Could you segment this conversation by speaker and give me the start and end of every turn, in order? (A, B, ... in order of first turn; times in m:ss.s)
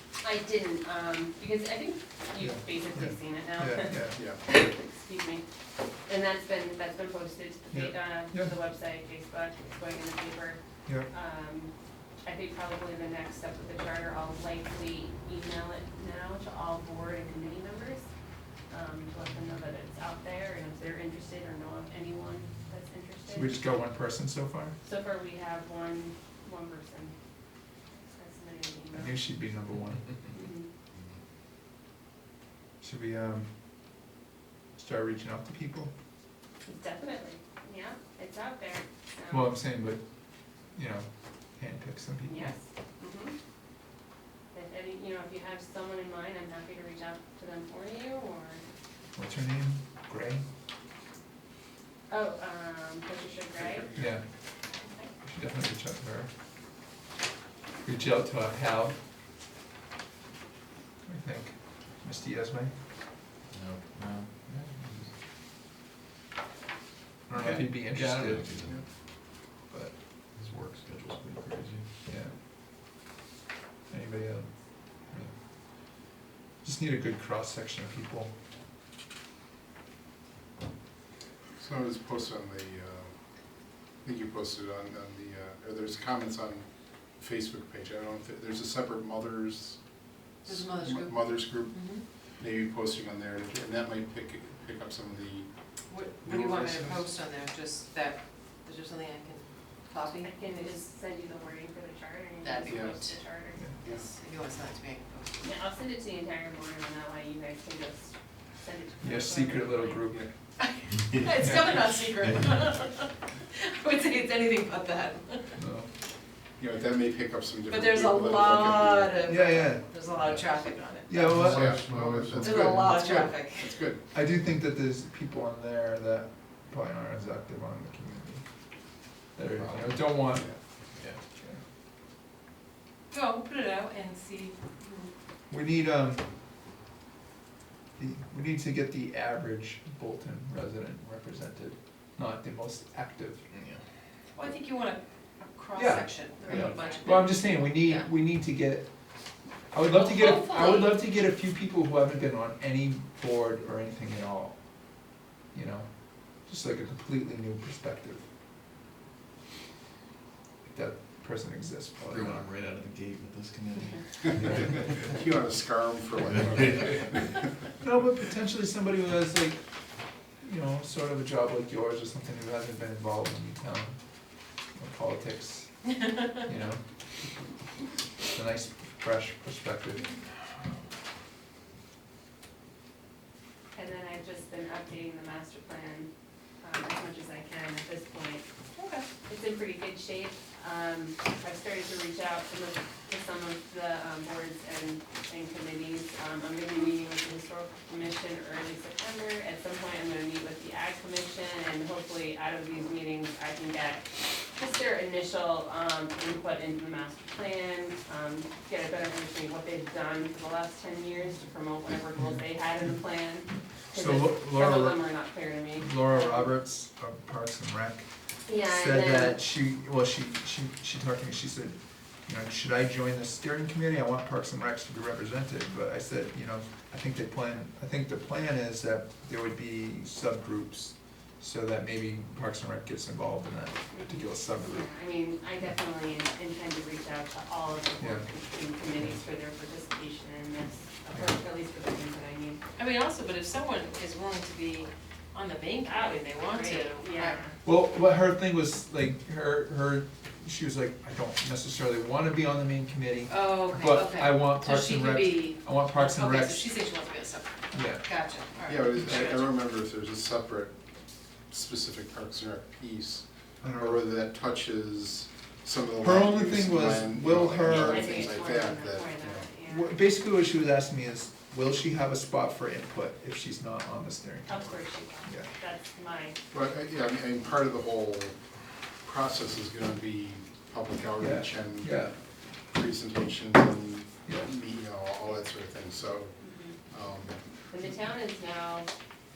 0:00.2-0:05.4 A
0:02.4-0:04.2 B
0:04.1-0:04.4 C
0:06.1-0:11.7 A
0:07.7-0:08.5 B
0:12.2-0:18.0 A
0:18.7-0:23.6 A
0:23.3-0:24.8 B
0:24.8-0:27.1 A
0:27.9-0:29.2 A
0:28.9-0:30.3 B
0:30.3-0:30.7 A
0:32.8-0:33.5 B
0:34.8-0:35.9 B
0:36.6-0:39.5 A
0:39.3-0:40.0 B
0:40.7-0:42.5 B
0:42.3-0:43.3 A
0:44.5-0:48.6 A
0:49.1-0:50.4 B
0:52.1-0:53.9 A
0:53.6-0:54.1 C
0:53.9-0:54.2 B
0:54.8-0:55.1 A
0:55.2-0:56.3 B
0:57.8-0:59.0 B
1:01.0-1:02.7 B
1:03.5-1:05.1 D
1:07.3-1:08.5 B
1:07.3-1:08.8 D
1:09.6-1:09.9 B
1:10.3-1:11.9 D
1:12.0-1:12.3 B
1:13.9-1:14.5 B
1:16.6-1:18.3 B
1:21.6-1:23.1 C
1:24.0-1:26.6 C
1:27.2-1:29.8 C
1:30.4-1:32.0 E
1:30.4-1:31.8 C
1:32.4-1:35.5 C
1:35.9-1:40.8 E
1:36.2-1:37.0 C
1:40.1-1:43.6 A
1:42.4-1:43.2 E
1:42.7-1:43.0 C
1:43.9-1:45.3 E
1:45.4-1:50.0 A
1:49.0-1:50.3 B
1:50.6-1:55.6 E
1:55.6-1:55.9 B
1:56.6-1:59.2 C
1:57.7-2:01.3 E
1:59.2-1:59.9 B
2:01.1-2:01.9 B
2:01.4-2:04.0 C
2:02.4-2:03.8 E
2:04.1-2:08.4 B
2:09.3-2:10.5 B
2:09.6-2:10.6 C
2:13.1-2:15.1 E
2:15.5-2:16.2 B
2:18.0-2:23.4 B
2:23.5-2:23.8 D
2:24.3-2:28.1 E
2:25.7-2:28.9 B
2:26.4-2:27.4 A
2:29.7-2:34.6 B
2:29.8-2:31.0 E
2:35.5-2:38.2 B
2:40.6-2:42.5 B
2:42.1-2:45.0 D
2:44.6-2:47.5 C
2:46.2-2:47.2 D
2:47.8-2:49.6 B
2:50.4-2:54.0 B
2:54.7-2:55.8 B
2:56.4-2:56.8 B
2:58.3-3:00.1 B
3:03.7-3:06.1 A
3:06.6-3:08.4 A
3:08.7-3:09.1 E
3:09.2-3:36.5 A
3:33.9-3:35.1 B
3:35.8-3:38.1 B
3:38.4-3:39.4 A
3:38.6-3:54.9 B
3:53.9-4:02.6 A
3:58.0-3:58.3 B
4:02.8-4:07.4 E
4:05.8-4:07.5 A
4:07.6-4:16.7 B
4:13.3-4:19.5 E
4:17.7-4:18.0 B
4:18.6-4:20.7 C
4:19.0-4:19.2 B
4:21.5-4:29.4 C
4:23.6-4:24.0 B
4:26.0-4:28.3 B
4:27.6-4:30.0 A
4:29.6-4:35.5 B
4:34.5-4:36.4 A
4:36.5-4:38.3 C
4:39.0-4:42.1 C
4:41.2-4:42.1 B
4:42.7-4:46.3 C
4:46.4-4:46.8 A
4:46.9-4:47.4 C
4:47.7-4:48.9 A